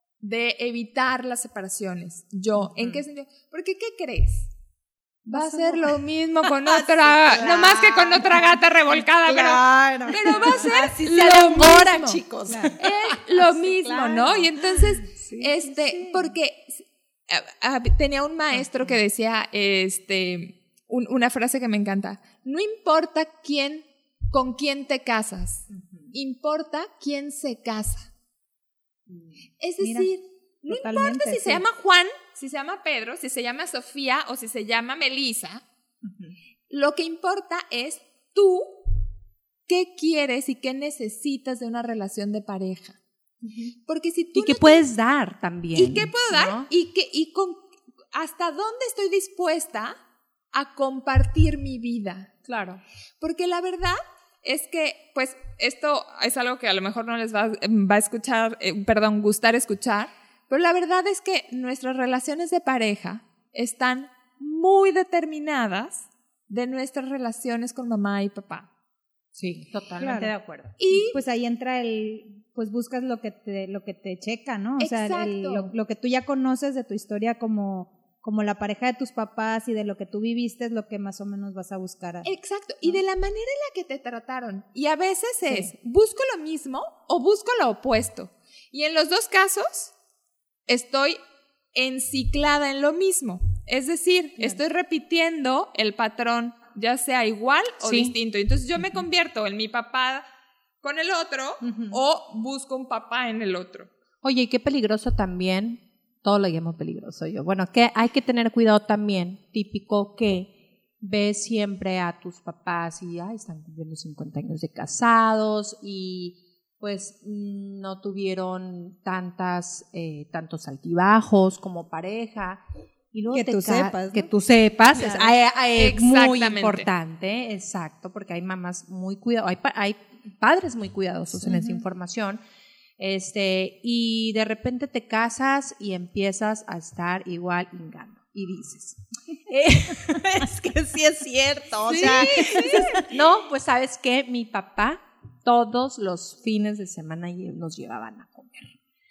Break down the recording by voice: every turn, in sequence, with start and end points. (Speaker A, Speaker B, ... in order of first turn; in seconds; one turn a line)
Speaker A: 0.2-4.5
Speaker B: 2.6-3.0
Speaker A: 5.3-12.2
Speaker C: 5.3-5.9
Speaker B: 6.5-8.5
Speaker B: 9.2-16.2
Speaker C: 9.7-10.6
Speaker C: 12.5-12.7
Speaker A: 12.8-28.1
Speaker B: 18.6-18.9
Speaker B: 25.7-26.1
Speaker B: 29.1-29.4
Speaker A: 29.6-35.6
Speaker C: 29.8-30.1
Speaker C: 30.7-31.6
Speaker B: 36.0-36.4
Speaker A: 36.7-38.8
Speaker A: 39.7-43.0
Speaker B: 43.4-43.7
Speaker A: 43.9-44.9
Speaker B: 44.3-46.7
Speaker A: 45.7-50.0
Speaker A: 50.5-52.3
Speaker B: 52.5-52.8
Speaker A: 53.2-68.7
Speaker B: 69.3-70.8
Speaker C: 70.0-70.3
Speaker A: 70.8-71.2
Speaker C: 70.9-82.3
Speaker A: 74.8-75.7
Speaker A: 82.2-89.9
Speaker A: 90.7-91.2
Speaker A: 91.7-100.2
Speaker B: 97.8-98.1
Speaker A: 100.8-103.9
Speaker B: 101.6-102.0
Speaker B: 104.2-132.4
Speaker C: 123.3-124.3
Speaker C: 124.9-125.3
Speaker A: 125.8-126.9
Speaker C: 131.4-131.8
Speaker B: 133.0-148.7
Speaker C: 141.9-143.0
Speaker A: 141.9-143.0